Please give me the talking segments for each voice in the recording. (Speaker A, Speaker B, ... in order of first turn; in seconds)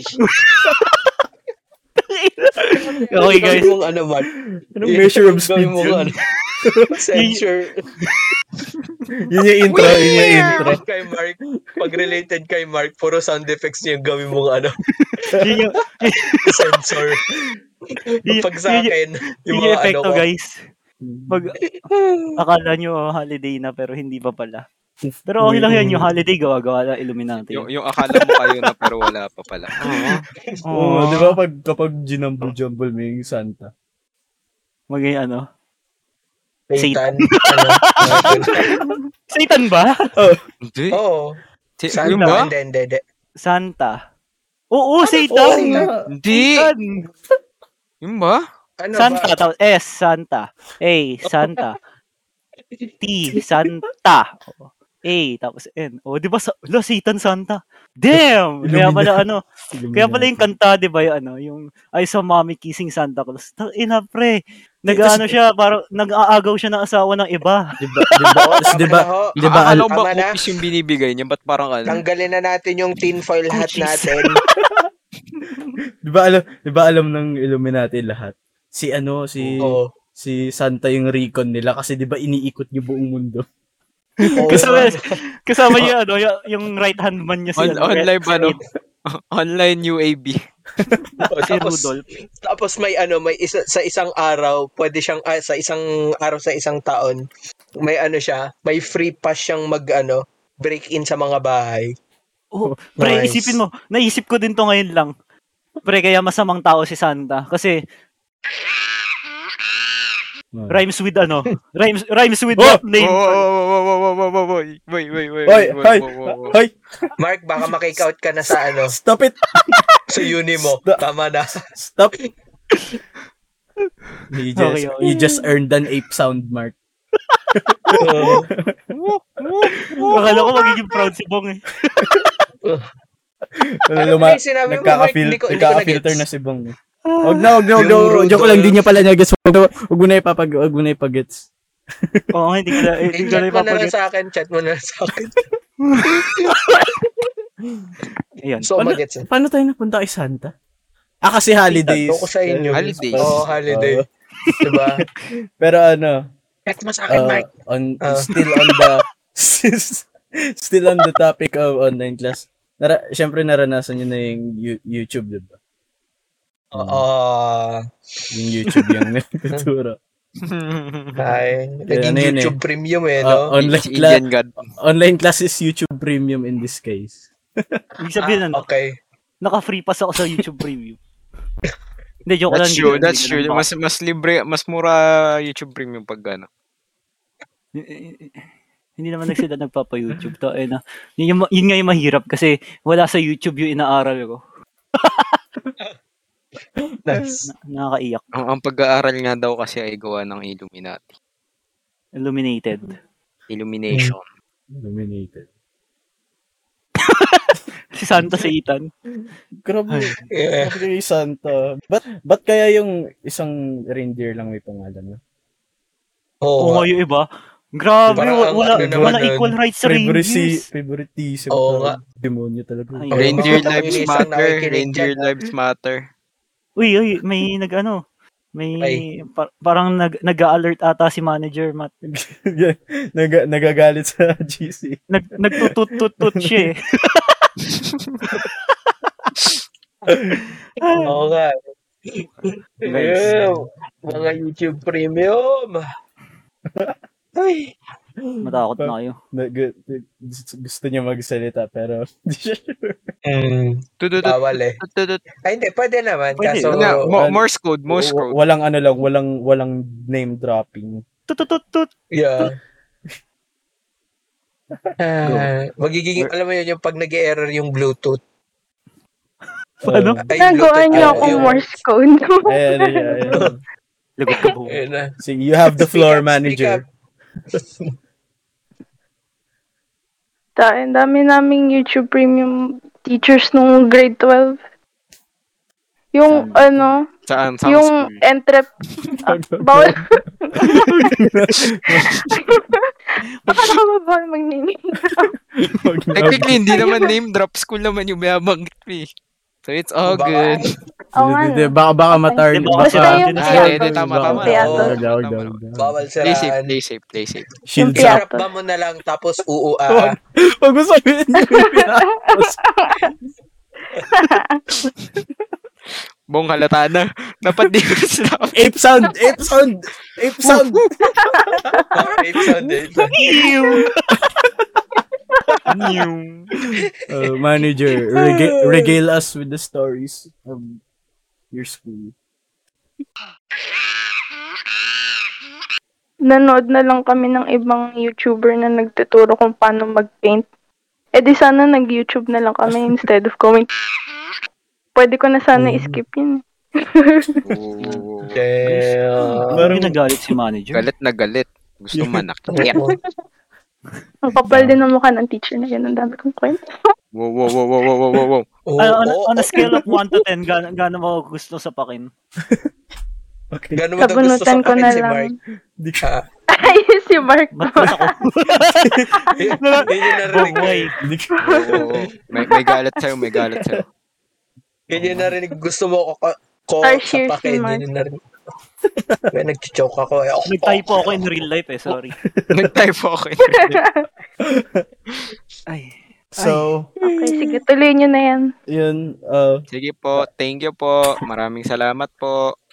Speaker A: 0.2-1.1, 2.0-3.7, 7.1-7.4, 9.7-10.4, 15.0-16.5, 18.2-18.9, 19.5-20.5, 21.3-21.6, 22.4-24.6, 25.3-28.5, 29.8-31.4, 34.9-35.5, 36.8-40.1, 42.0-42.4, 43.4-44.0, 44.7-47.1, 48.9-51.8, 53.0-67.7, 68.3-68.6, 73.5-74.3, 84.2-88.6, 91.4-92.0, 102.5-105.1, 105.8-107.8, 110.7-113.4, 124.6-125.2, 130.1-132.1, 137.1-137.7, 142.3-143.9, 145.9-146.8, 148.4-148.7, 178.0-178.6, 179.4-181.0, 182.2-183.7, 187.7-188.4, 189.0-194.4, 195.0-195.4, 197.5-198.2, 202.2-202.9, 207.0-208.9, 209.9-210.2, 216.6-220.7, 222.9-223.9, 226.8-228.0, 228.5-231.9, 235.1-237.3, 240.8-241.1, 242.8-243.5, 248.4-249.2, 256.4-256.8, 261.3-261.9, 269.8-270.2, 274.2-274.8, 302.5-303.8, 323.1-323.9, 349.6-350.8, 358.8-362.1, 367.6-369.0, 369.6-370.9, 380.5-382.1, 385.7-386.6
Speaker B: 2.7-4.3, 4.8-6.2, 6.9-7.9, 9.8-14.8, 16.4-17.2, 18.2-20.2, 21.9-22.4, 36.7-38.8, 40.9-41.4, 41.9-43.0, 45.3-45.9, 48.8-49.4, 68.4-70.4, 71.9-74.3, 79.6-79.8, 84.3-85.1, 91.3-97.2, 97.8-101.9, 103.0-103.6, 117.2-119.0, 120.1-121.6, 128.0-128.5, 134.0-136.2, 137.8-138.7, 143.1-145.4, 146.1-146.6, 148.6-149.3, 151.7-154.0, 154.6-155.0, 156.7-157.5, 158.0-158.3, 166.7-167.8, 171.2-173.5, 178.2-179.0, 197.1-197.4, 210.3-210.8, 216.4-216.9, 218.1-219.5, 221.5-221.9, 223.1-225.3, 241.0-241.5, 242.1-245.8, 247.3-247.7, 253.2-254.8, 255.4-256.9, 262.1-262.5, 265.0-268.2, 270.3-271.7, 274.6-275.1, 275.7-276.8, 300.0-300.8, 304.5-304.9, 305.8-306.7, 307.9-310.1, 321.9-323.1, 328.2-328.9, 348.3-349.7, 352.5-353.0, 358.7-359.8, 363.7-365.3, 369.3-370.9, 374.9-378.1, 379.3-381.2
Speaker C: 3.2-3.7, 4.7-6.9, 9.2-10.8, 21.0-21.4, 25.1-26.1, 30.7-33.7, 40.1-40.4, 45.3-46.1, 58.6-59.2, 59.7-60.5, 67.8-69.8, 74.6-74.9, 76.0-83.5, 84.5-84.8, 90.9-91.3, 115.5-117.1, 118.8-120.0, 120.5-121.0, 121.8-122.2, 124.3-126.8, 127.5-128.8, 129.8-130.3, 133.6-141.5, 148.8-150.5, 151.2-154.5, 155.6-156.2, 157.1-165.5, 166.7-167.0, 168.3-170.0, 171.9-172.5, 173.2-174.2, 174.8-177.8, 204.7-205.5, 208.1-208.4, 209.2-215.2, 218.1-219.2, 219.8-223.3, 232.0-235.0, 236.2-236.7, 240.1-240.4, 248.2-253.1, 257.1-261.0, 264.8-265.4, 269.9-270.3, 270.9-271.6, 272.4-273.6, 275.2-276.8, 286.4-286.8, 289.3-290.1, 290.7-292.1, 295.0-296.6, 301.2-305.9, 307.7-308.2, 309.9-312.6, 318.5-321.8, 324.2-324.8, 327.1-330.8, 331.5-332.1, 345.5-346.0, 349.4-350.3, 351.9-352.2, 354.5-354.8, 359.6-360.0, 363.5-363.8, 365.8-366.1, 368.9-369.3, 370.3-371.6, 375.0-375.3, 378.9-379.3, 382.2-382.7, 384.4-384.9, 386.4-387.5, 388.7-389.6
Speaker D: 27.5-30.2, 40.6-41.0, 41.8-42.5, 46.1-46.7, 48.0-48.4, 69.4-72.0, 75.3-75.6, 87.6-88.6, 89.1-90.4, 113.0-116.5, 152.7-153.5, 170.4-171.3, 173.6-174.6, 182.5-186.5, 198.3-201.1, 203.5-204.2, 223.2-226.1, 254.0-255.2, 256.7-258.3, 287.3-288.2, 296.1-299.1, 299.6-300.7, 303.4-305.6, 306.2-307.4, 316.3-318.5, 325.7-326.5, 347.5-348.3, 350.7-352.7, 357.1-358.4, 371.4-373.8, 382.5-383.8, 389.7-392.5
Speaker E: 270.4-273.5, 280.6-284.6, 286.1-287.0, 287.6-288.7, 289.2-291.1, 292.0-292.8, 293.5-295.3, 296.7-297.1, 301.1-305.0, 307.8-308.5, 311.4-313.1, 314.0-314.6, 321.3-321.9, 336.3-340.5, 341.2-343.7, 344.9-347.4, 352.7-353.0, 354.2-356.6, 364.0-365.4, 366.5-368.1, 371.4-371.9, 376.8-377.8, 383.4-384.1, 387.0-388.5